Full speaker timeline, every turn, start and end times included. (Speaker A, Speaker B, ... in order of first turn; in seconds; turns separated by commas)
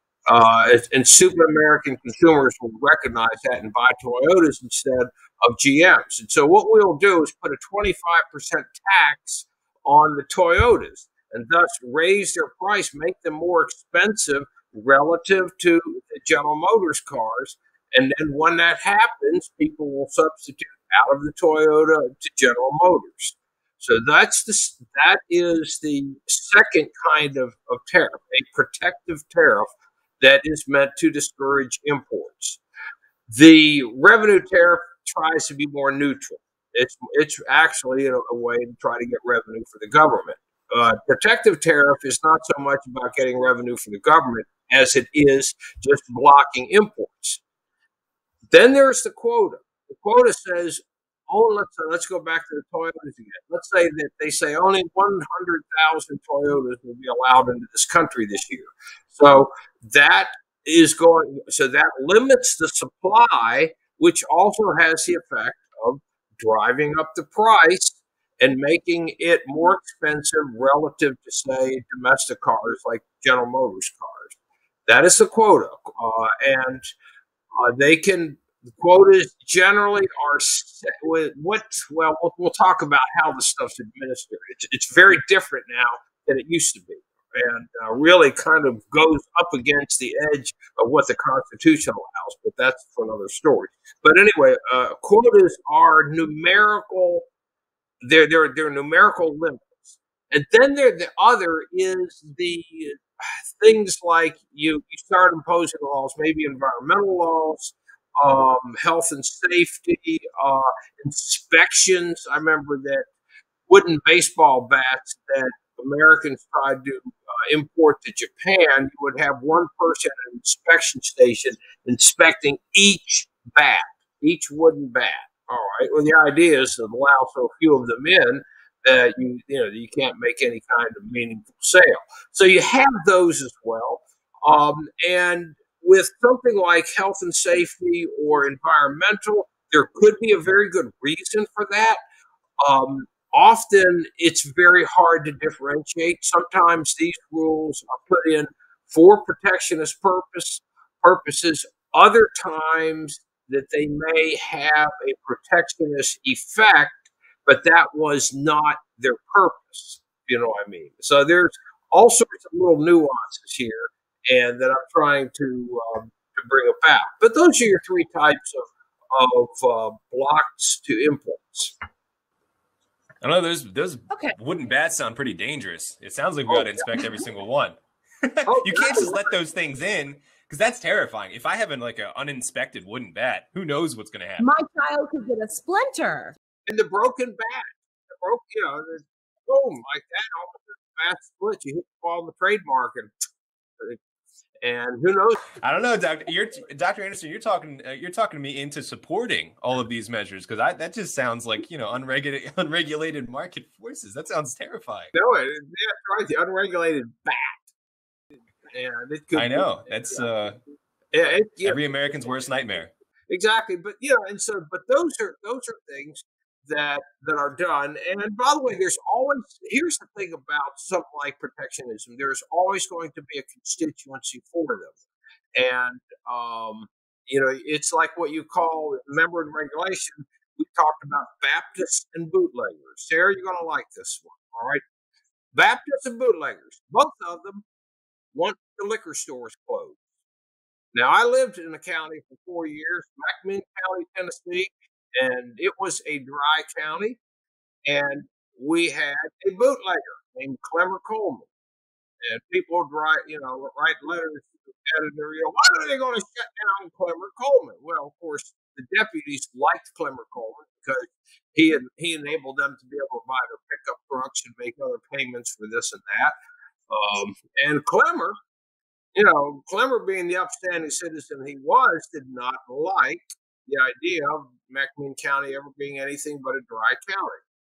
Speaker A: 0.3-32.6, Speaker A: 33.3-47.4, Speaker A: 48.5-74.3, Speaker A: 74.9-76.9, Speaker A: 77.5-97.3, Speaker A: 98.0-113.1, Speaker A: 113.7-142.0, Speaker A: 142.6-171.7, Speaker B: 173.2-184.5, Speaker C: 174.1-174.4, Speaker A: 176.5-176.9, Speaker A: 178.5-179.3, Speaker C: 184.4-186.4, Speaker A: 186.7-193.1, Speaker A: 194.6-195.5, Speaker B: 195.6-205.1, Speaker A: 205.1-207.7, Speaker A: 208.7-210.3, Speaker B: 209.3-210.6, Speaker A: 211.1-211.8, Speaker B: 211.6-212.9, Speaker A: 213.3-225.0, Speaker A: 225.6-234.8, Speaker A: 235.5-237.7, Speaker A: 238.3-240.0, Speaker A: 240.9-247.2, Speaker A: 247.9-251.5, Speaker A: 252.2-266.4, Speaker A: 266.9-268.4, Speaker A: 269.1-277.4